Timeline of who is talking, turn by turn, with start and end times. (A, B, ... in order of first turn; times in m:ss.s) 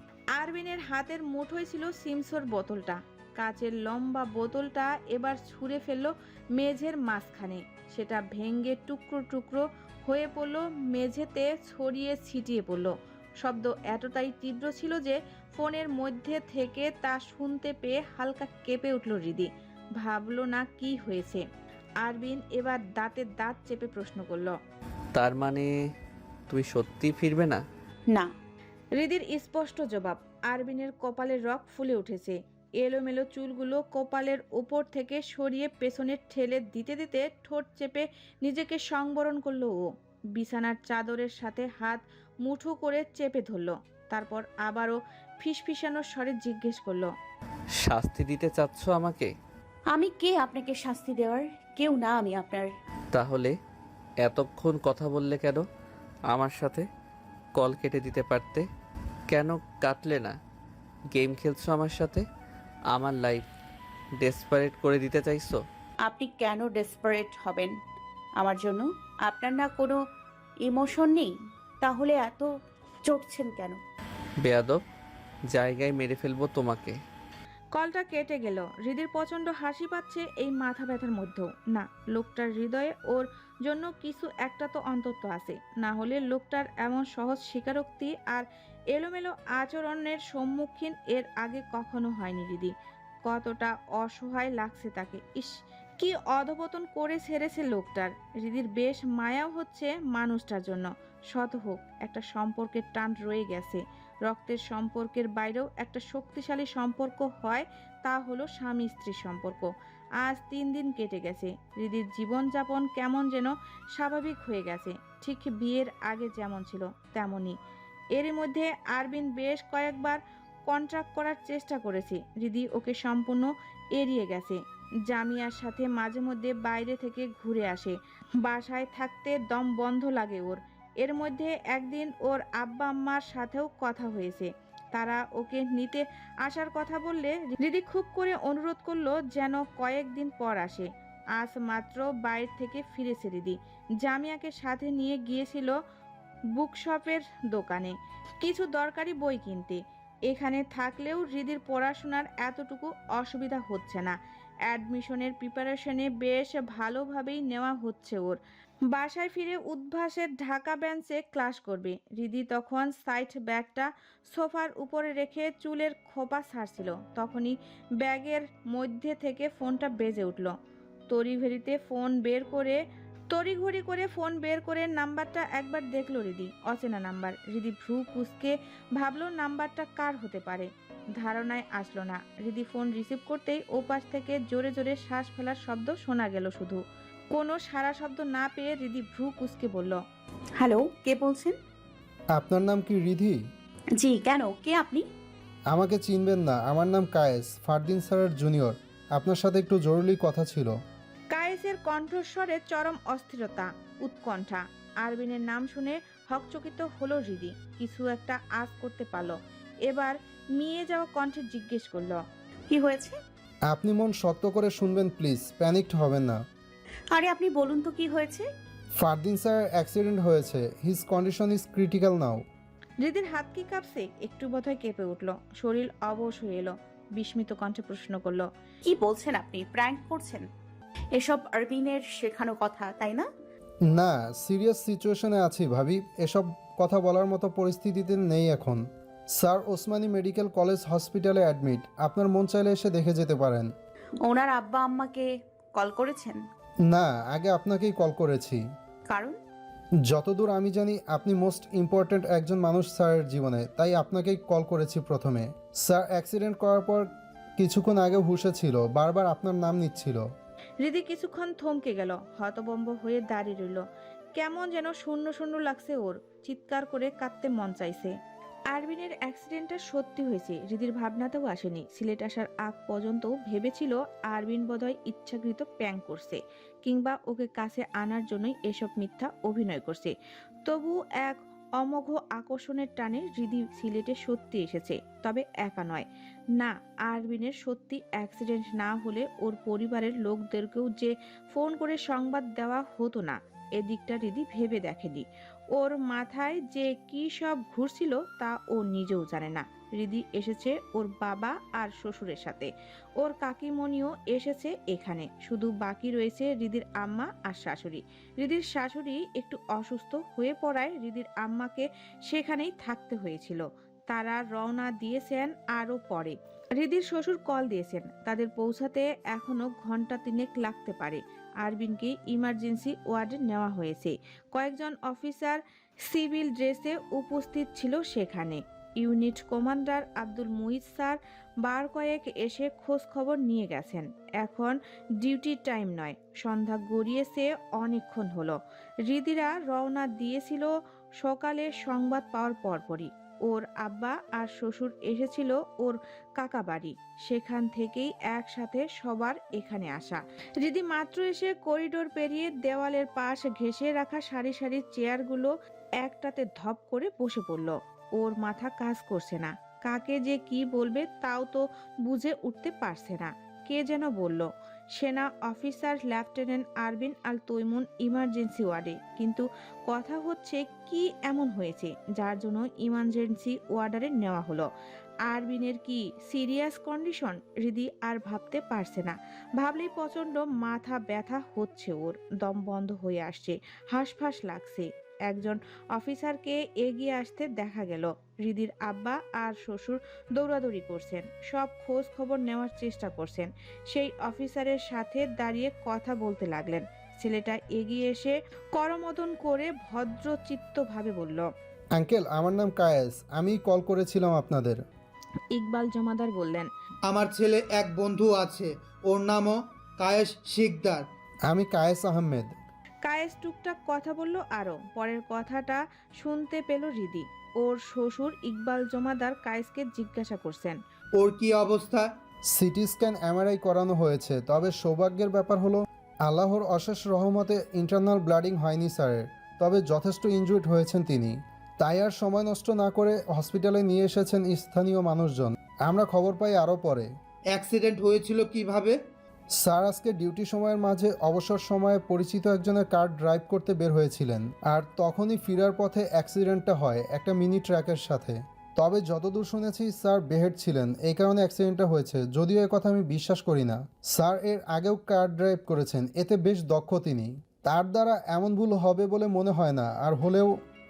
0:00.4-0:21.4 A
0:22.0-0:24.6 A
0:25.1-0:25.7 B
0:26.5-0:27.6 B
0:29.0-0:47.1 A
0:47.8-0:49.3 B
0:49.9-0:52.7 C
0:53.1-0:53.5 B
0:54.2-0:55.6 B
0:56.3-0:56.8 B
0:57.6-0:58.6 B
0:59.3-1:00.3 B
1:01.1-1:02.2 B
1:02.9-1:03.5 B
1:04.2-1:05.6 B
1:06.0-1:07.8 C
1:08.4-1:10.0 C
1:10.6-1:12.5 C
1:13.0-1:13.8 C
1:14.4-1:14.8 B
1:15.5-1:17.0 B
1:17.8-1:32.7 A
1:33.3-1:49.7 A
1:50.2-1:57.6 A
1:58.2-2:25.7 A
2:26.6-2:34.2 A
2:34.7-2:38.4 A
2:38.9-2:50.5 A
2:51.1-2:52.8 A
2:53.3-3:06.8 A
3:07.3-3:10.0 A
3:10.6-3:11.6 C
3:12.4-3:13.4 D
3:14.0-3:15.1 C
3:15.7-3:20.7 D
3:21.3-3:29.4 A
3:29.9-3:32.2 A
3:32.7-3:33.2 C
3:33.7-3:36.4 D
3:37.1-3:38.5 C
3:39.0-3:42.4 D
3:43.0-3:48.5 A
3:48.8-3:50.5 C
3:51.1-3:53.3 C
3:53.9-3:58.8 D
3:59.4-4:03.7 D
4:04.2-4:06.4 C
4:06.9-4:08.6 D
4:09.1-4:09.4 C
4:10.1-4:17.1 D
4:17.6-4:20.2 D
4:20.8-4:23.8 A
4:24.4-4:28.1 A
4:28.7-4:40.1 A
4:40.6-6:14.7 A
6:15.3-6:41.5 A
6:42.0-6:44.8 D
6:45.5-6:46.7 A
6:47.1-6:51.1 E
6:51.5-6:52.5 D
6:53.0-7:00.8 A
7:01.2-7:02.1 E
7:02.5-7:17.1 D
7:17.5-7:19.0 E
7:19.6-7:40.5 D